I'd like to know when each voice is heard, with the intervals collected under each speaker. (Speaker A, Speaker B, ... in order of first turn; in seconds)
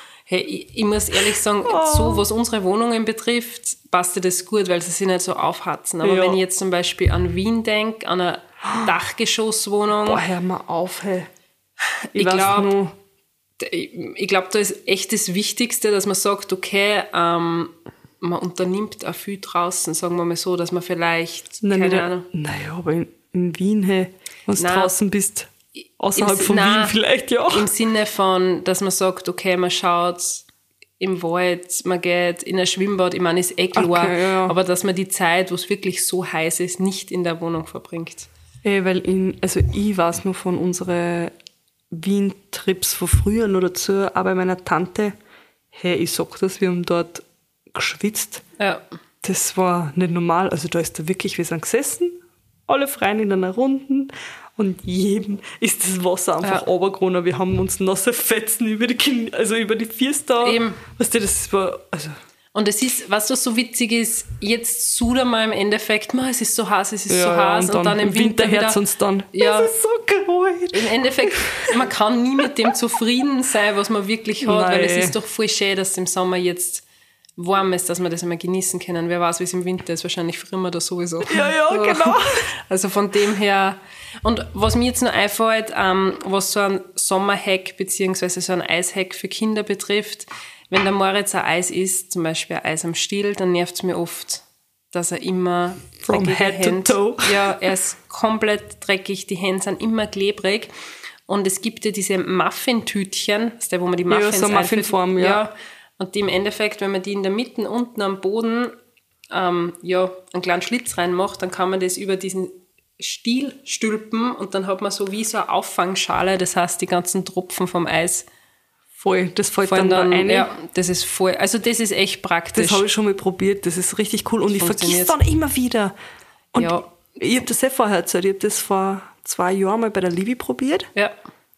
Speaker A: 0.3-10.2, 12.1-12.7, 13.6-22.3, 24.6-24.9, 25.8-26.9, 27.5-30.4, 31.0-38.3, 60.4-60.8, 62.5-68.8, 69.3-69.7, 70.7-76.8, 77.4-100.7, 101.3-108.7, 109.3-118.3, 119.7-122.8, 124.5-125.1, 126.5-126.9
Speaker B: 1.6-2.2, 6.0-6.4, 8.6-8.9, 10.0-11.3, 12.1-12.9, 21.6-27.7, 33.7-34.5, 38.6-41.3, 41.9-45.1, 45.7-48.4, 49.2-62.2, 67.1-71.8, 74.4-75.1, 81.3-82.5, 96.1-97.5, 104.1-105.4, 119.0-120.5, 122.5-126.0, 126.5-130.9